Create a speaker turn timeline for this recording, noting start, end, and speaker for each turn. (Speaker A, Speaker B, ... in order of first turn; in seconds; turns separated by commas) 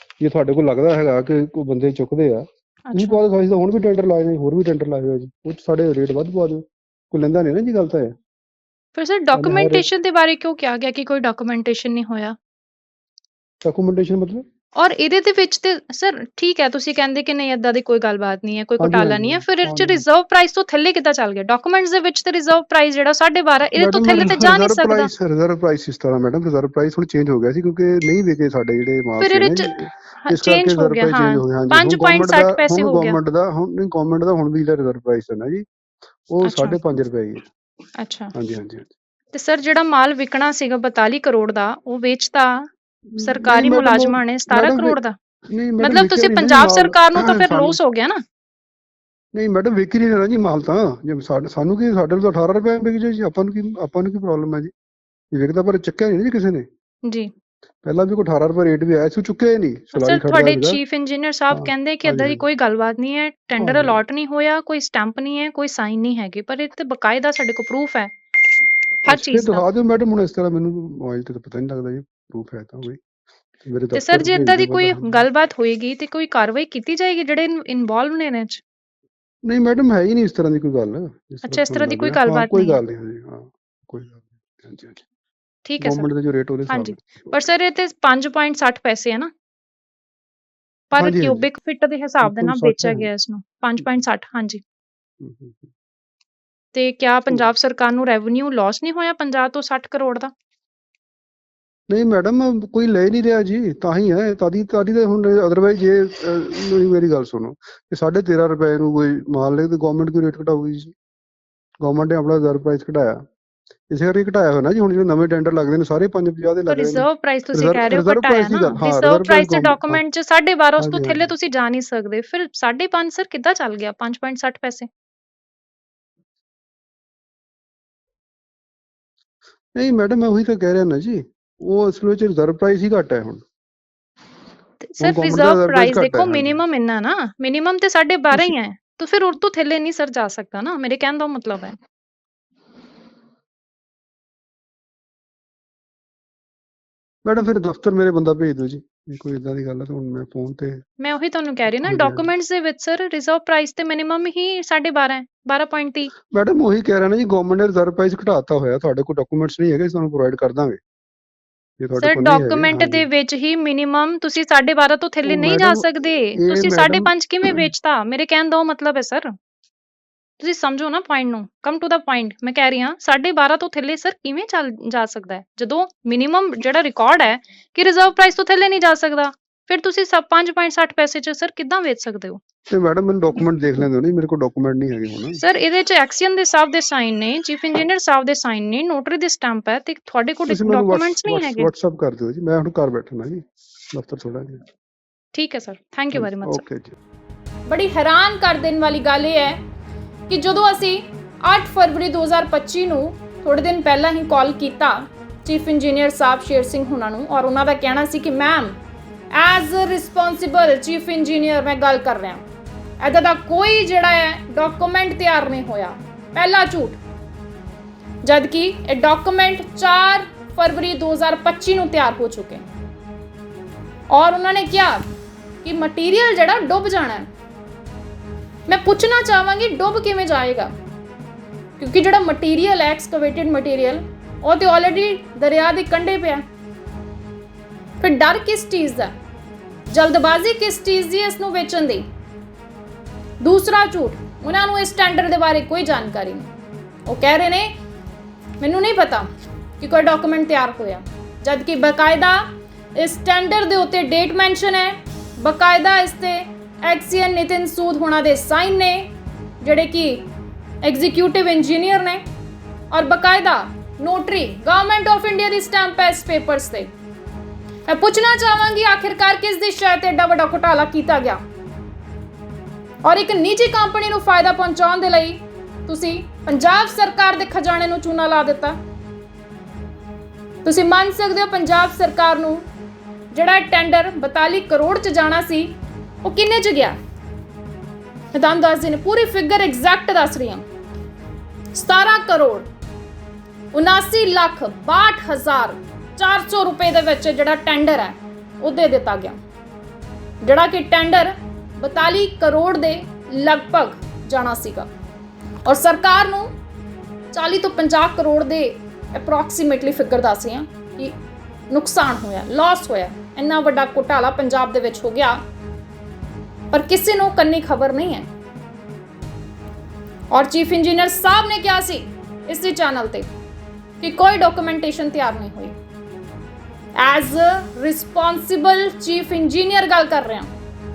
Speaker A: 0.2-8.2, Speaker B: 2.9-3.2, Speaker B: 8.9-12.3, Speaker A: 9.3-9.8, Speaker A: 13.6-14.4, Speaker B: 14.8-25.1, Speaker A: 18.8-20.0, Speaker A: 23.7-35.6, Speaker B: 29.2-29.7, Speaker B: 30.2-33.2, Speaker A: 36.3-37.4, Speaker B: 36.4-37.0, Speaker B: 38.0-38.3, Speaker A: 38.3-38.9, Speaker B: 39.3-42.7, Speaker A: 43.1-45.0, Speaker B: 43.2-45.1, Speaker A: 45.5-47.8, Speaker B: 45.8-48.2, Speaker A: 49.3-54.7, Speaker A: 55.3-56.7, Speaker B: 57.0-57.3, Speaker A: 57.8-60.8, Speaker B: 59.9-68.1, Speaker A: 61.5-62.4, Speaker A: 63.6-64.0, Speaker B: 69.0-69.6, Speaker A: 69.1-73.0, Speaker A: 73.6-75.3, Speaker B: 73.9-78.6, Speaker A: 79.4-85.0, Speaker B: 81.4-82.8, Speaker B: 85.7-86.1, Speaker A: 85.8-87.4, Speaker B: 86.7-89.3, Speaker B: 90.9-94.6, Speaker A: 90.9-91.4, Speaker A: 92.2-93.1, Speaker A: 95.2-95.7, Speaker B: 96.7-100.3, Speaker A: 101.9-110.9, Speaker A: 111.8-113.2, Speaker A: 113.9-120.0, Speaker B: 116.7-124.9, Speaker A: 120.8-121.3, Speaker A: 129.7-133.4, Speaker B: 134.8-141.8, Speaker A: 135.0-136.6, Speaker A: 147.2-150.8, Speaker B: 151.0-156.1, Speaker A: 151.7-152.3, Speaker A: 156.3-160.8, Speaker A: 161.8-163.1, Speaker B: 162.0-169.3, Speaker A: 165.2-167.7, Speaker B: 170.4-182.4, Speaker A: 182.7-185.4, Speaker B: 185.4-191.7, Speaker A: 190.5-194.6, Speaker B: 195.3-196.6, Speaker A: 196.1-196.9, Speaker C: 197.7-199.6, Speaker C: 200.3-208.8, Speaker C: 209.3-212.4, Speaker C: 213.0-217.0, Speaker C: 218.2-222.7, Speaker C: 224.1-225.0, Speaker C: 225.6-227.3, Speaker C: 228.7-230.7, Speaker C: 231.8-236.4, Speaker C: 238.0-239.2, Speaker C: 239.9-242.1, Speaker C: 243.4-246.5, Speaker C: 247.1-247.7, Speaker C: 248.6-249.3, Speaker C: 249.8-252.4, Speaker C: 253.0-259.1, Speaker C: 259.6-260.3, Speaker C: 260.8-262.2, Speaker C: 262.9-266.9, Speaker C: 267.9-271.4, Speaker C: 273.0-278.8, Speaker C: 280.6-282.6, Speaker C: 283.3-287.0, Speaker C: 288.3-290.6, Speaker C: 291.7-292.7, Speaker C: 293.7-299.4, Speaker C: 300.4-304.9, Speaker C: 305.6-306.5, Speaker C: 307.3-311.2, Speaker C: 311.7-315.4, Speaker C: 316.7-318.3, Speaker C: 320.3-323.3, Speaker C: 324.0-325.8, Speaker C: 327.0-330.5